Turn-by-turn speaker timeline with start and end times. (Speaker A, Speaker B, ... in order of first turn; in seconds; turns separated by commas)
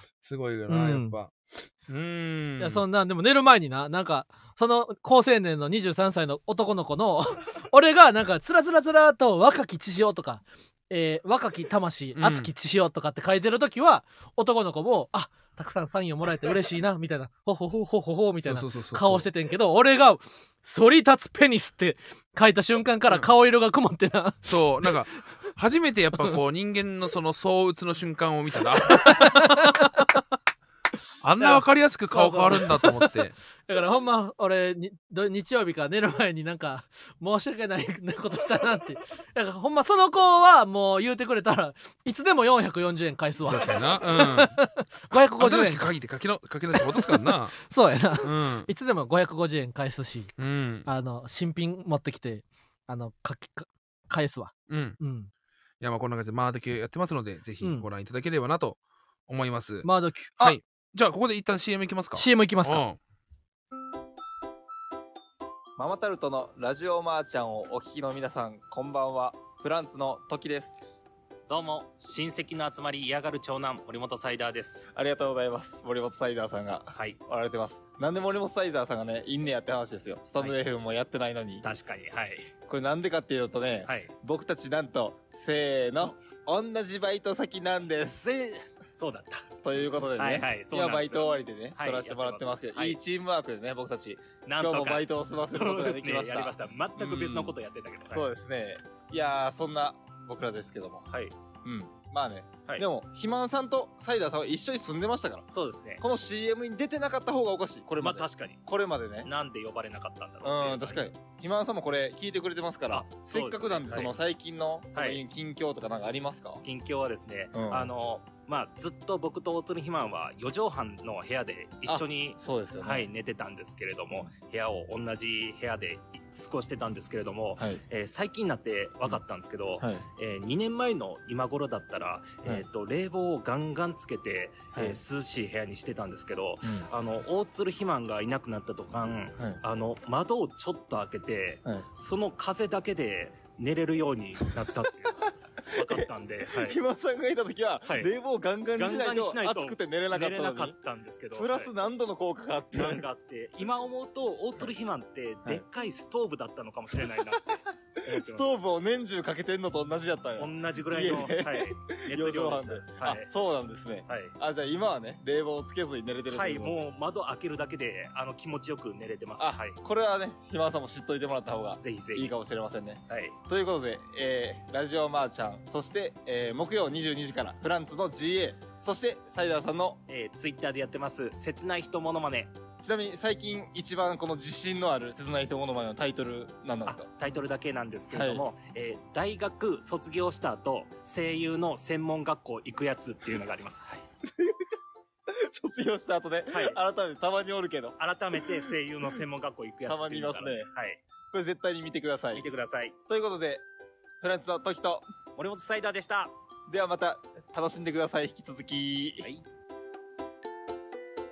Speaker A: 0.2-2.8, Speaker B: 0.7-1.1, Speaker B: 2.6-25.0, Speaker A: 12.2-12.5, Speaker A: 18.4-19.3, Speaker A: 24.5-30.1, Speaker B: 28.9-30.1, Speaker A: 31.2-33.4, Speaker B: 31.4-45.9, Speaker A: 43.5-44.5, Speaker A: 45.4-47.5, Speaker B: 46.7-50.3, Speaker A: 48.2-48.7, Speaker A: 50.4-50.9, Speaker B: 50.9-55.3, Speaker A: 54.7-55.0, Speaker A: 55.8-59.9, Speaker B: 59.8-60.6, Speaker A: 60.4-63.0, Speaker B: 62.2-62.8, Speaker C: 65.8-70.8, Speaker D: 71.5-74.9, Speaker C: 75.0-81.7, Speaker D: 76.9-77.2, Speaker D: 81.6-82.5, Speaker C: 82.7-88.3, Speaker D: 83.9-84.1, Speaker D: 88.2-89.5, Speaker C: 89.6-97.5, Speaker D: 90.2-93.0, Speaker D: 94.5-98.3, Speaker C: 98.1-101.1, Speaker D: 101.1-101.3, Speaker C: 101.6-105.5, Speaker D: 105.5-106.0, Speaker C: 106.0-109.3, Speaker D: 108.0-108.6, Speaker D: 109.2-111.1, Speaker C: 110.4-116.6, Speaker D: 112.9-114.2, Speaker D: 115.0-115.2, Speaker D: 116.6-146.8, Speaker C: 117.5-117.9, Speaker C: 121.9-123.1, Speaker C: 145.8-150.7, Speaker D: 148.8-151.7, Speaker C: 151.3-153.0, Speaker D: 152.8-158.5, Speaker C: 158.1-166.8, Speaker D: 160.4-163.3, Speaker D: 164.1-164.3, Speaker D: 166.3-169.8, Speaker C: 169.4-180.0, Speaker D: 171.8-172.3, Speaker D: 173.1-173.4, Speaker D: 180.1-182.6, Speaker C: 182.8-187.1, Speaker D: 186.9-194.0, Speaker C: 188.1-188.4, Speaker C: 195.5-198.5, Speaker D: 196.5-196.8, Speaker D: 198.0-201.0, Speaker C: 199.9-200.7, Speaker C: 201.3-202.4, Speaker D: 202.3-203.0, Speaker C: 203.1-203.6, Speaker C: 204.2-205.1, Speaker D: 205.4-206.3, Speaker C: 206.7-209.3